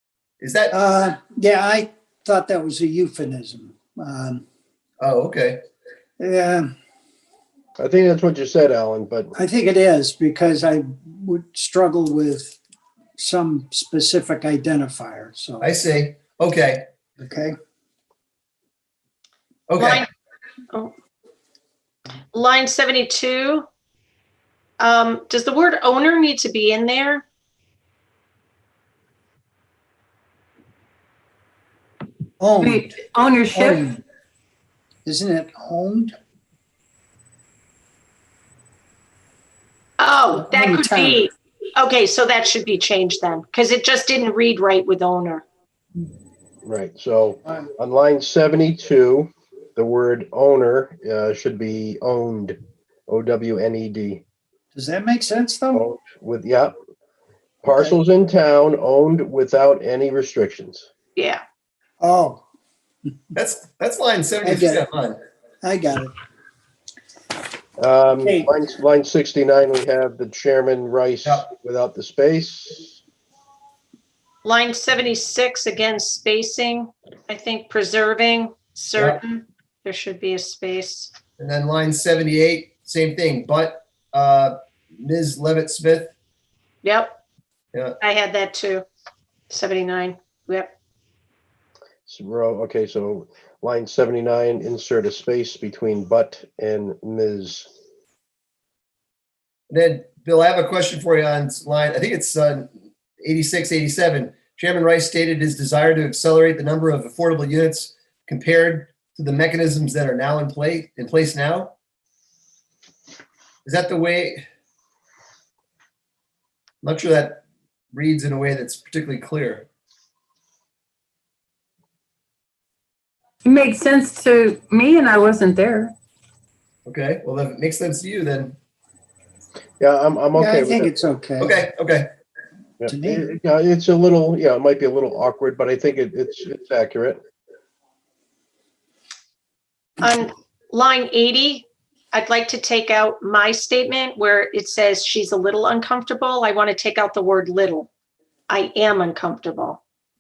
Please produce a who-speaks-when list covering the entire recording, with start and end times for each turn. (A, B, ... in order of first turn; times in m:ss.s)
0:00.4-0:00.7 A
0:00.7-0:04.4 B
0:05.0-0:05.6 A
0:06.2-0:06.7 B
0:07.8-0:09.3 C
0:09.4-0:12.6 B
0:13.2-0:15.7 B
0:15.6-0:16.9 A
0:17.2-0:17.6 B
0:19.7-0:20.0 A
0:19.8-0:20.1 D
0:22.3-0:23.7 D
0:24.8-0:27.3 D
0:32.4-0:33.0 B
0:32.6-0:33.8 E
0:33.5-0:34.0 B
0:35.0-0:36.2 B
0:40.0-0:45.4 D
0:40.4-0:41.3 B
0:46.6-0:52.6 C
0:53.1-0:54.2 C
0:54.7-0:55.8 B
0:55.7-0:56.8 C
0:57.6-1:00.9 C
1:01.2-1:01.4 D
1:02.0-1:02.4 B
1:03.4-1:05.2 A
1:04.4-1:04.8 B
1:05.6-1:06.1 B
1:07.8-1:13.0 C
1:14.4-1:21.1 D
1:21.4-1:26.2 A
1:26.8-1:27.1 D
1:28.0-1:28.9 D
1:29.5-1:30.7 D
1:32.1-1:37.7 C
1:39.7-1:42.7 A
1:43.2-1:51.7 A
1:53.6-1:54.4 A
1:56.8-1:59.7 A
2:03.4-2:06.0 E
2:06.9-2:08.6 A
2:09.8-2:10.9 C
2:10.4-2:11.6 B
2:11.4-2:12.1 A
2:12.8-2:17.2 C
2:12.9-2:13.3 B
2:20.0-2:27.9 D
2:28.5-2:29.8 D